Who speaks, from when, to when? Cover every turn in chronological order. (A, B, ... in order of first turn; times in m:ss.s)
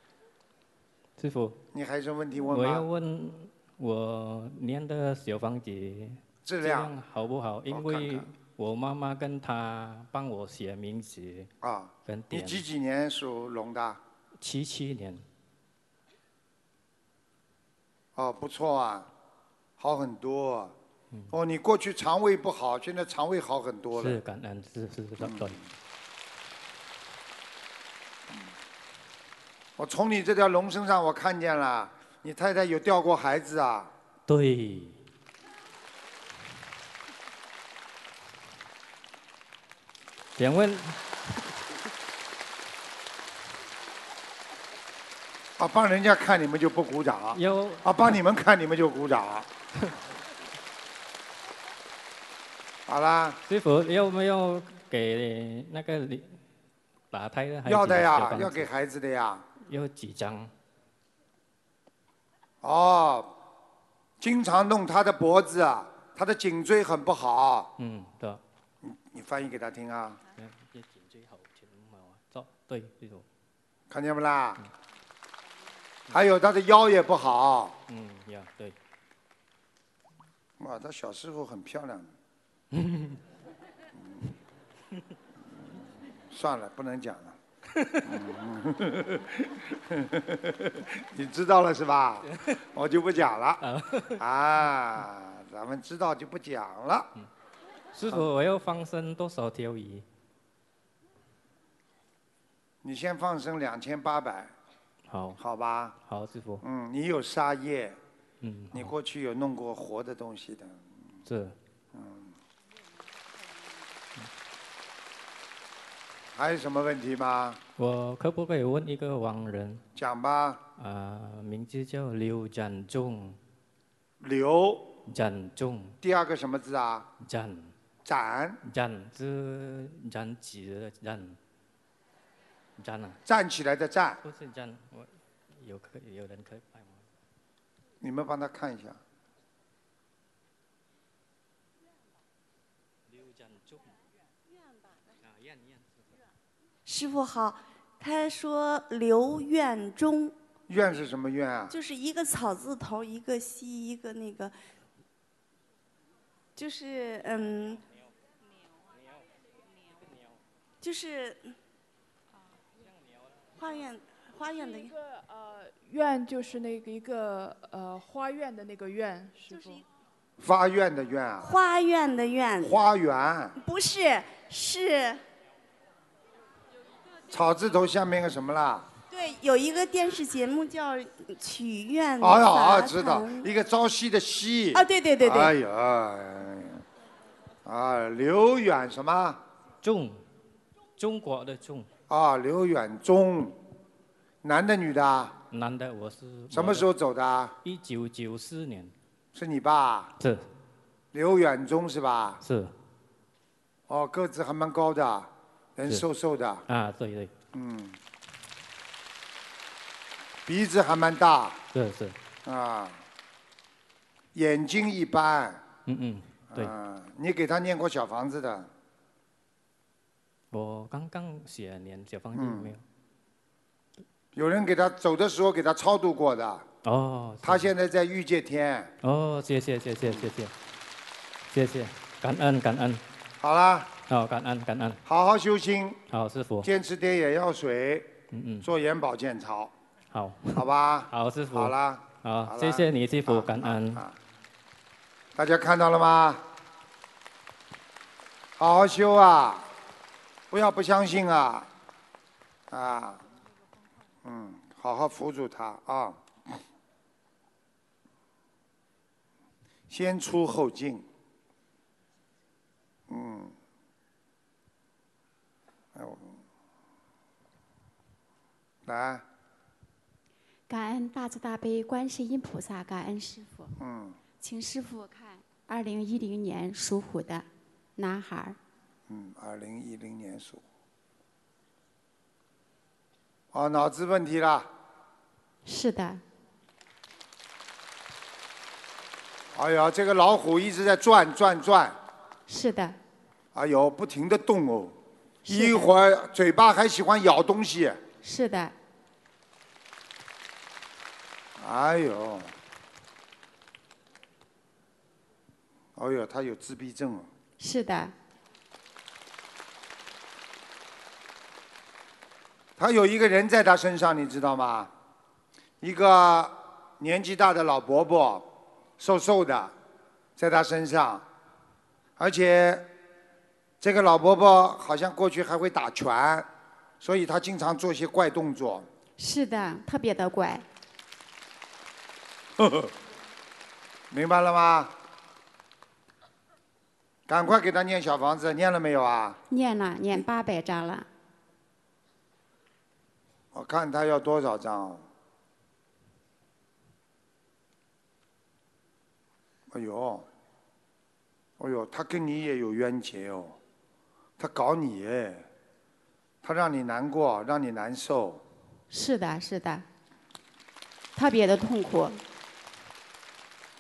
0:01.2-0:01.6 A
0:01.7-0:02.9 B
0:02.5-0:11.5 A
0:06.4-0:07.0 B
0:07.7-0:08.3 B
0:11.6-0:14.0 B
0:12.1-0:12.6 A
0:14.4-0:15.2 A
0:18.2-0:19.1 B
0:19.8-0:20.8 B
0:21.3-0:24.2 B
0:24.0-0:25.6 A
0:25.2-0:25.6 B
0:29.8-0:33.9 B
0:34.3-0:35.0 A
0:40.4-0:41.5 A
0:45.6-0:49.5 B
0:47.3-0:48.0 A
0:52.9-0:53.4 B
0:53.5-0:56.4 A
0:57.1-0:58.7 A
0:57.7-0:59.5 B
0:59.6-1:00.5 A
1:02.6-1:03.4 B
1:04.2-1:07.7 B
1:07.8-1:08.4 A
1:08.8-1:10.2 B
1:10.4-1:13.2 A
1:13.9-1:14.6 B
1:16.1-1:17.8 B
1:17.9-1:18.8 A
1:20.6-1:22.1 B
1:22.7-1:23.2 A
1:24.0-1:24.3 B
1:25.5-1:27.4 B
1:27.7-1:28.2 A
1:28.0-1:33.6 B
1:32.3-1:32.6 A
1:33.6-1:34.2 A
1:34.2-1:37.2 B
1:37.9-1:40.0 A
1:42.8-1:44.6 B
1:45.1-1:45.4 A
1:45.4-1:46.0 B
1:46.0-1:46.6 A
1:46.6-1:48.0 B
1:48.4-1:48.9 A
1:48.7-1:51.0 B
1:51.3-1:51.6 A
1:51.9-1:52.4 B
1:56.4-1:57.6 B
1:57.8-1:59.8 A
2:00.0-2:00.6 B
2:00.8-2:03.4 A
2:04.2-2:05.0 B
2:05.1-2:06.0 A
2:06.0-2:07.1 B
2:07.2-2:07.7 A
2:08.1-2:08.6 B
2:08.6-2:11.4 A
2:12.8-2:13.2 A
2:13.3-2:14.2 B
2:14.2-2:17.0 A
2:18.0-2:19.0 B
2:23.1-2:23.9 A
2:25.2-2:26.0 A
2:26.9-2:30.4 C
2:30.7-2:31.8 B
2:31.7-2:34.6 C
2:36.6-2:37.8 C
2:40.8-2:41.6 C
2:43.6-2:44.9 C
2:44.6-2:49.8 D
2:49.5-2:49.8 C
2:50.4-2:51.6 B
2:51.4-2:52.8 C
2:52.6-2:53.6 B
2:53.6-2:55.2 C
2:57.3-2:58.9 B
2:59.1-3:03.4 C
3:02.2-3:06.8 B
3:04.7-3:05.5 C
3:07.6-3:09.4 B
3:09.8-3:10.2 A
3:11.0-3:11.9 A
3:12.1-3:13.6 B
3:14.4-3:15.4 B
3:15.5-3:16.9 A
3:16.5-3:17.6 B
3:17.6-3:18.9 A
3:19.3-3:20.2 B
3:20.2-3:20.5 A
3:21.1-3:22.4 B
3:22.4-3:22.7 A
3:23.9-3:26.7 B
3:26.7-3:27.3 A
3:27.5-3:28.0 B
3:30.5-3:31.6 B
3:31.7-3:32.2 A
3:32.4-3:33.0 B
3:34.3-3:35.7 B
3:35.9-3:36.7 A
3:36.5-3:38.7 B
3:40.5-3:42.8 A
3:42.3-3:42.7 B
3:44.4-3:46.7 B
3:46.8-3:47.7 A
3:47.4-3:48.9 B
3:49.0-3:50.5 A
3:50.0-3:50.3 B
3:51.5-3:53.0 A
3:53.4-3:53.9 B
3:54.1-3:55.0 A
3:55.0-3:56.0 B
3:56.1-3:56.7 A
3:56.6-3:59.7 B
3:58.3-3:58.7 A
4:00.1-4:04.0 A
4:00.5-4:04.2 B
4:05.4-4:06.4 B
4:08.6-4:09.7 B
4:10.5-4:11.7 B
4:12.7-4:13.2 B
4:14.2-4:16.6 B
4:19.9-4:21.1 B
4:23.1-4:23.6 B
4:25.9-4:26.4 B
4:28.8-4:29.3 B
4:30.7-4:33.8 E
4:33.8-4:34.2 B
4:34.4-4:37.5 E
4:38.0-4:38.6 E
4:39.1-4:40.6 B
4:43.5-4:44.7 B
4:45.6-4:46.2 E
4:49.5-4:52.0 B
4:52.5-4:53.0 E
4:53.5-4:58.0 B
4:55.5-4:55.9 E
4:58.2-4:58.8 E
5:01.6-5:02.6 B
5:06.0-5:07.3 B
5:07.6-5:08.1 E
5:12.8-5:14.9 B
5:15.8-5:19.8 B
5:20.4-5:21.3 B
5:22.2-5:22.9 B
5:23.8-5:26.5 B
5:27.0-5:28.9 B
5:29.2-5:30.6 E
5:32.6-5:32.9 B
5:34.1-5:35.0 B
5:37.3-5:39.4 B
5:39.5-5:41.1 E
5:43.5-5:45.1 B
5:49.7-5:50.3 B
5:51.6-5:53.6 B
5:54.4-5:55.5 B
5:56.4-5:58.4 B
5:58.9-5:59.8 E
6:01.2-6:02.2 E